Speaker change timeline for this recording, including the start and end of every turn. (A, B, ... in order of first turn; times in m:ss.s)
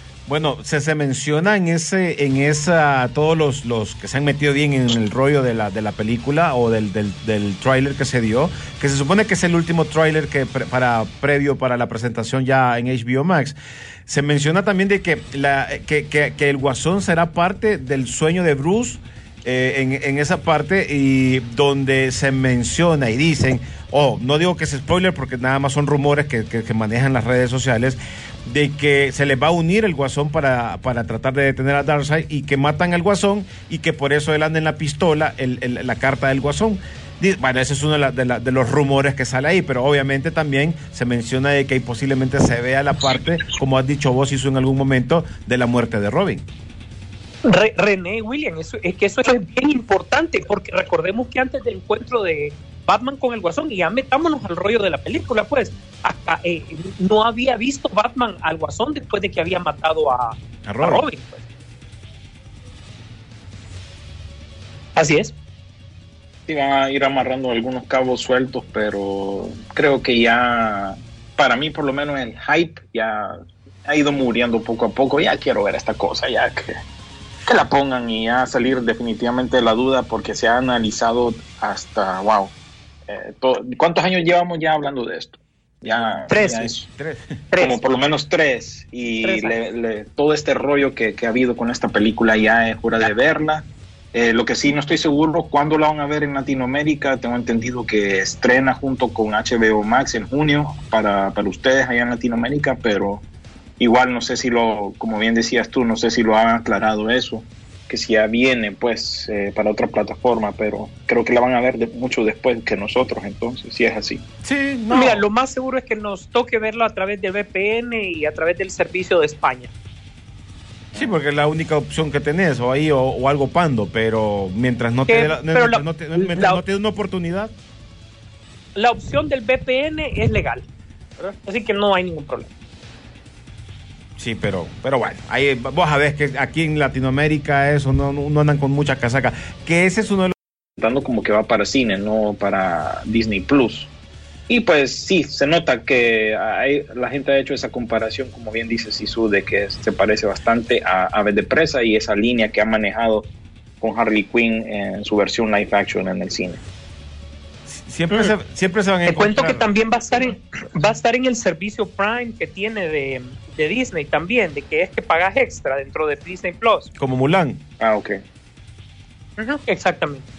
0:00.2-0:13.6 A
0:14.1-0:46.4 A
0:47.4-1:01.4 B
1:00.7-1:01.0 A
1:05.0-1:05.3 B
1:06.5-1:13.3 C
1:13.8-1:16.8 C
1:17.4-1:22.5 C
1:23.1-1:26.8 C
1:26.3-1:26.7 B
1:26.6-1:27.2 A
1:27.5-1:27.8 B
1:27.6-1:43.2 C
1:29.2-1:29.6 B
1:43.8-1:54.2 C
1:54.4-1:55.2 A
1:54.9-1:59.7 B
2:00.9-2:07.5 A
2:05.1-2:06.6 B
2:08.8-2:10.6 B
2:11.4-2:12.5 B
2:14.2-2:20.3 A
2:20.8-2:23.9 C
2:24.5-2:33.3 C
2:33.8-2:36.6 C
2:37.7-2:39.7 A
2:39.0-2:46.9 B
2:47.0-2:47.6 A
2:47.8-2:48.2 C
2:49.4-2:50.2 B